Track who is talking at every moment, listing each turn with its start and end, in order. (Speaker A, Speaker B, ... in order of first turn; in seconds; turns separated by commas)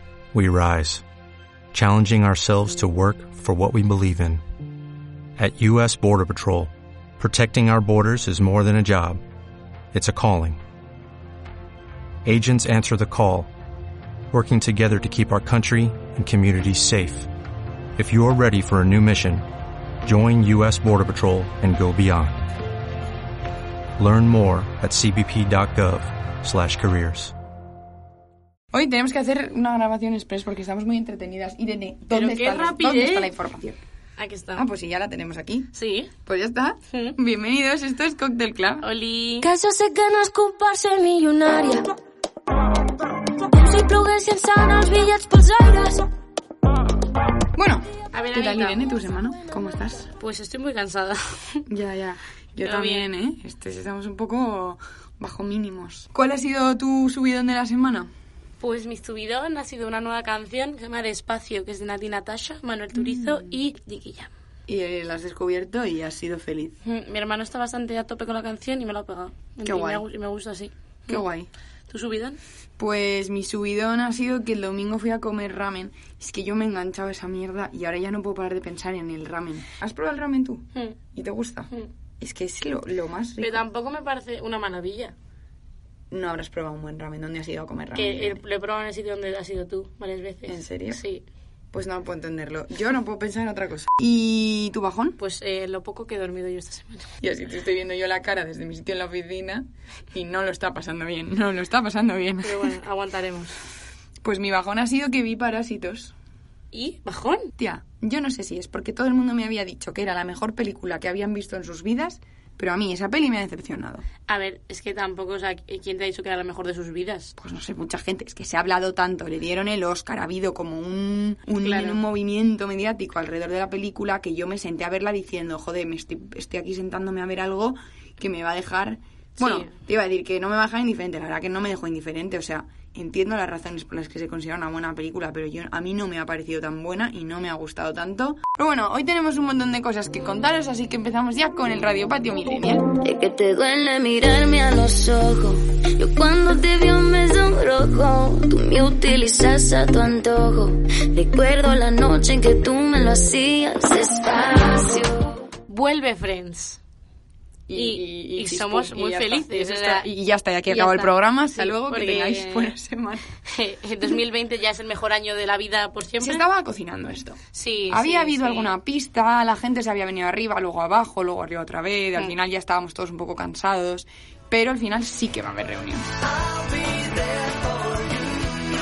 Speaker A: 0.3-1.0, Speaker A: 1.7-4.4, Speaker A: 5.4-9.2, Speaker A: 9.9-10.6, Speaker A: 12.2-13.5, Speaker A: 14.3-17.3, Speaker A: 18.0-19.4, Speaker A: 20.0-22.4, Speaker A: 24.0-27.3, Speaker B: 28.7-33.8, Speaker C: 32.1-33.3, Speaker C: 34.2-34.7, Speaker B: 34.6-35.7, Speaker C: 35.7-36.1, Speaker B: 36.2-38.9, Speaker C: 36.9-37.2, Speaker C: 38.8-39.5, Speaker D: 39.4-41.9, Speaker D: 43.5-46.1, Speaker B: 47.6-50.1, Speaker C: 48.1-48.9, Speaker C: 50.2-51.6, Speaker B: 51.7-58.1, Speaker C: 52.6-53.1, Speaker C: 58.6-64.3, Speaker B: 63.0-63.5, Speaker B: 64.7-66.8, Speaker C: 66.8-71.2, Speaker B: 69.6-70.0, Speaker B: 71.1-71.5, Speaker C: 71.9-72.4, Speaker B: 72.8-83.7, Speaker C: 83.4-85.1, Speaker B: 86.1-88.4, Speaker C: 87.9-91.2, Speaker B: 90.5-91.0, Speaker B: 91.7-95.2, Speaker C: 95.2-97.1, Speaker B: 97.2-102.8, Speaker C: 102.4-103.6, Speaker B: 104.2-106.1, Speaker C: 106.7-107.5, Speaker B: 107.6-114.0, Speaker C: 114.3-117.3, Speaker B: 117.4-142.9, Speaker C: 121.6-122.0, Speaker C: 129.4-129.7, Speaker D: 143.0-155.3, Speaker C: 155.7-156.8, Speaker B: 157.7-163.3, Speaker C: 157.8-160.1, Speaker C: 160.7-162.8, Speaker C: 163.5-166.4, Speaker B: 166.2-176.1, Speaker C: 167.5-168.8